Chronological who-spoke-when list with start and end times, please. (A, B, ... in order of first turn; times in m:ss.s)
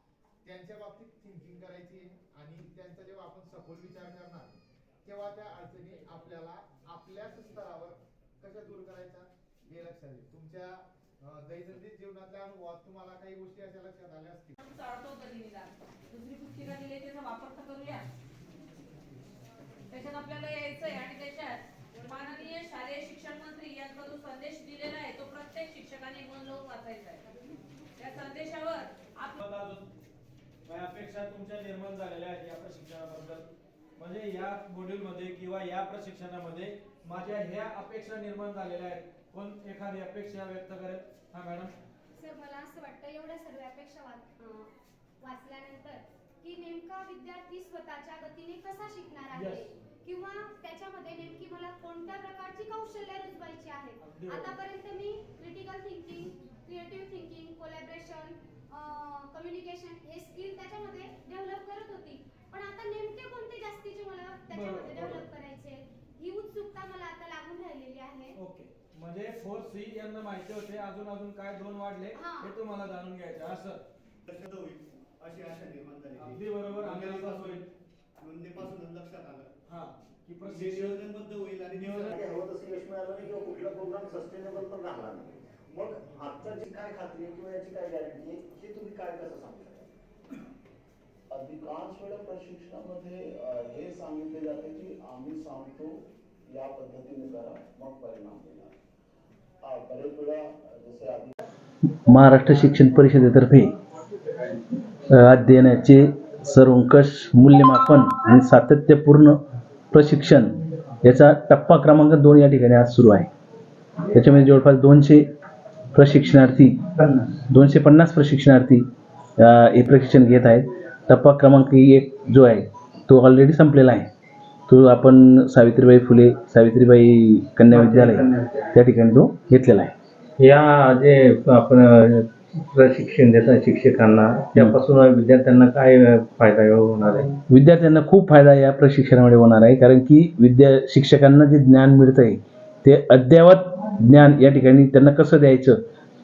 0:00.4-0:14.6 A
0:14.6-0:18.1 B
0:19.9-0:27.3 B
0:28.0-0:29.4 B
0:29.4-0:29.9 C
0:30.6-0:41.7 C
0:42.2-1:08.4 D
0:49.3-0:49.7 C
0:54.0-0:54.6 C
1:04.5-1:05.2 C
1:08.4-1:13.8 C
1:12.2-1:12.5 D
1:14.3-1:17.6 E
1:16.2-1:17.7 C
1:18.2-1:19.5 E
1:19.7-1:21.1 C
1:20.4-1:22.2 E
1:21.7-1:22.2 C
1:22.1-1:29.9 F
1:31.3-1:35.9 G
1:36.5-1:38.7 G
1:39.6-1:41.4 G
1:42.1-1:43.7 H
1:45.1-1:49.4 H
1:49.9-1:53.3 H
1:54.1-1:55.3 H
1:55.9-1:58.9 H
1:59.4-2:04.1 H
2:04.7-2:09.9 H
2:07.7-2:08.7 I
2:10.4-2:17.3 I
2:17.5-2:25.8 H